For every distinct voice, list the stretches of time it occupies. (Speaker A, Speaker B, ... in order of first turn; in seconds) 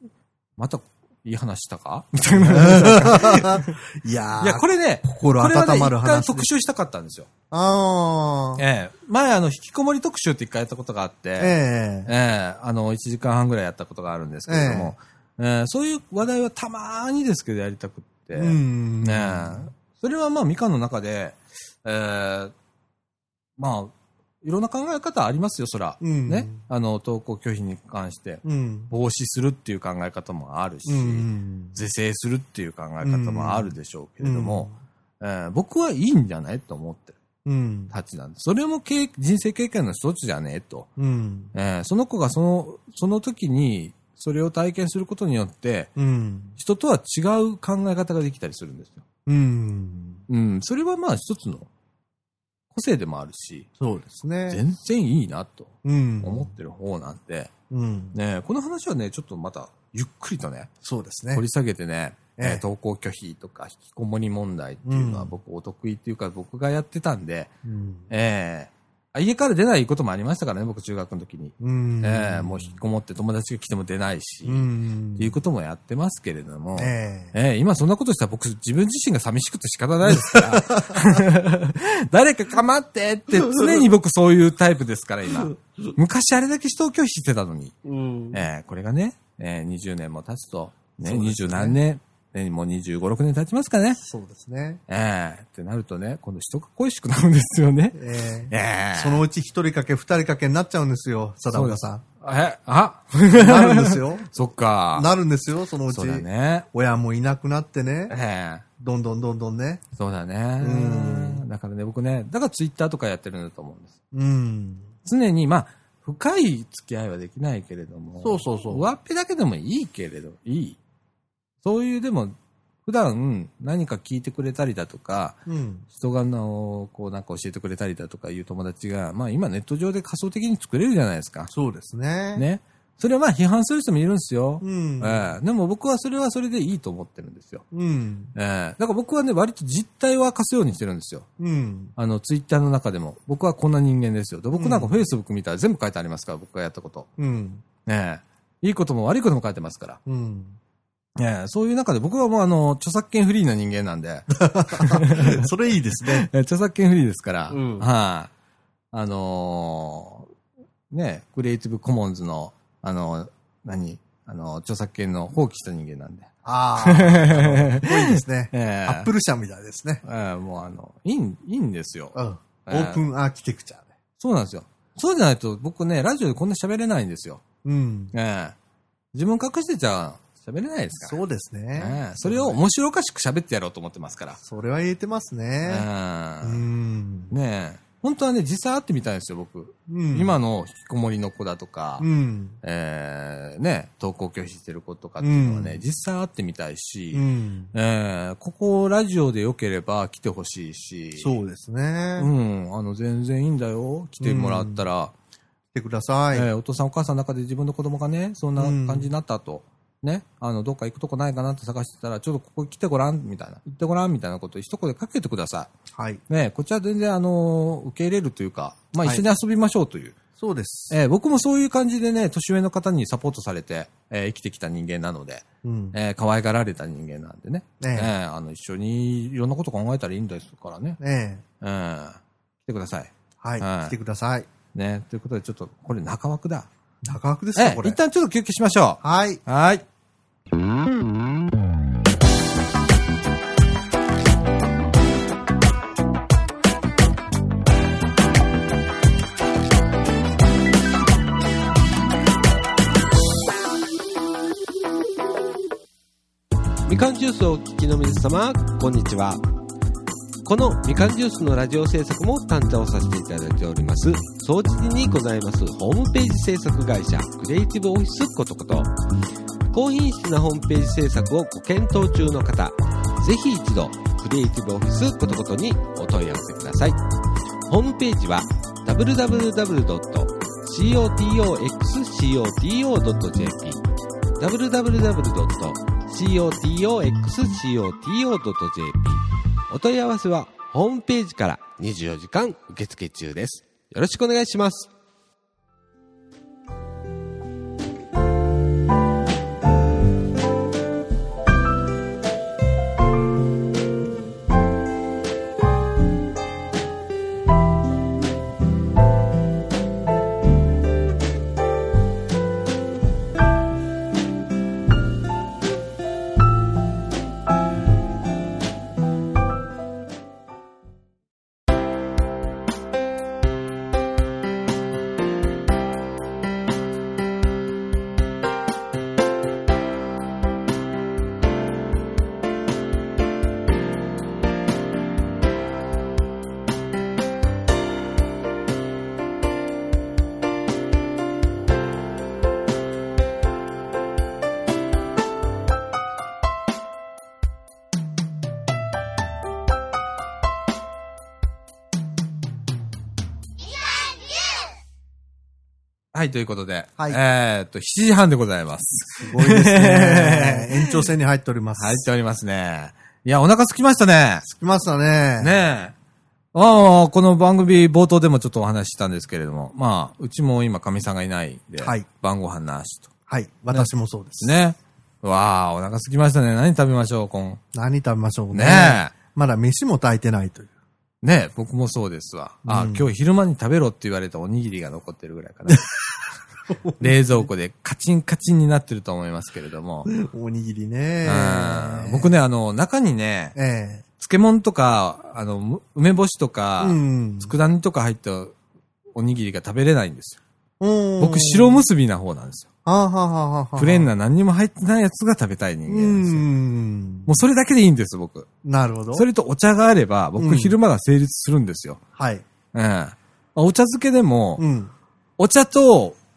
Speaker A: 0.6-3.8, 4.4-7.3, 8.6-11.5, 12.1-22.5, 23.6-37.2, 37.9-40.9, 41.5-45.9, 46.6-49.0, 50.3-51.7, 52.7-53.7, 54.5-57.5, 58.1-60.7, 61.3-67.5, 68.1-87.8, 88.3-94.0, 94.9-99.2, 101.5-105.1, 105.9-106.7, 108.1-108.7, 110.0-114.0, 115.0-120.8, 121.6-125.4, 125.9-131.5, 132.3-137.6, 138.3-141.3, 141.9-147.1, 147.8-150.0, 151.2-155.5, 156.0-158.3, 158.9-160.3, 160.9-169.1, 170.0-173.0, 174.2-177.4, 178.1-178.6, 179.1-181.2, 181.8-184.4, 185.6-186.7, 187.3-192.1, 192.6-201.3, 202.2-205.1, 206.3-215.7, 216.3-220.2, 220.9-231.0, 231.6-233.9, 234.7-236.7, 237.6-239.8, 356.1-361.0, 361.8-364.4, 365.4-365.9, 366.5-373.1, 374.4-377.6, 378.5-379.1, 381.2-385.9, 387.0-390.1, 391.2-393.6, 394.2-398.6, 399.1-400.4, 401.2-402.7, 403.8-406.4, 407.2-408.5, 409.1-412.0, 412.7-414.6, 415.4-416.2
Speaker B: 2.3-6.5, 7.5-8.6, 11.4-12.1, 14.5-14.9, 18.4-19.7, 26.0-26.6, 28.4-28.9, 30.9-31.8, 33.0-34.7, 37.4-37.9, 41.0-41.5, 46.0-46.6, 49.2-50.2, 53.8-54.6, 55.8-56.5, 57.7-58.2, 60.8-61.4, 62.4-62.6, 64.8-65.3, 67.6-68.1, 71.6-72.8, 74.4-75.4, 76.7-77.3, 80.2-81.0, 87.8-88.4, 91.0-91.8, 94.0-94.8, 97.9-102.0, 103.3-104.3, 104.9-108.1, 108.8-109.8, 110.6-111.4, 114.1-114.9, 118.2-118.9, 125.5-125.8, 131.5-132.4, 134.6-135.3, 137.7-138.3, 141.4-141.9, 144.5-145.0, 147.2-147.6, 150.1-150.6, 154.4-156.3, 157.5-157.9, 166.4-170.0, 172.1-173.9, 177.6-178.1, 181.0-182.6, 184.4-185.8, 186.4-187.3, 189.9-190.3, 192.0-192.6, 195.2-195.8, 197.1-197.7, 201.2-202.3, 204.2-204.8, 205.7-206.5, 208.6-209.1, 215.9-216.2, 220.4-221.0, 225.6-225.9, 227.8-228.1, 231.0-231.4, 233.4-234.5, 237.0-238.0, 239.0-239.4, 359.2-362.0, 364.4-365.6, 371.8-372.0, 373.3-374.5, 377.7-380.7, 382.6-383.1, 386.7-387.5, 390.1-392.3, 393.6-394.0, 396.8-397.5, 400.8-401.8, 402.8-404.1, 405.9-407.3, 408.6-409.3, 410.4-410.8, 412.1-412.4, 414.6-414.9
Speaker C: 256.9-259.4, 260.4-268.9, 269.7-277.0, 277.7-283.8, 284.4-294.9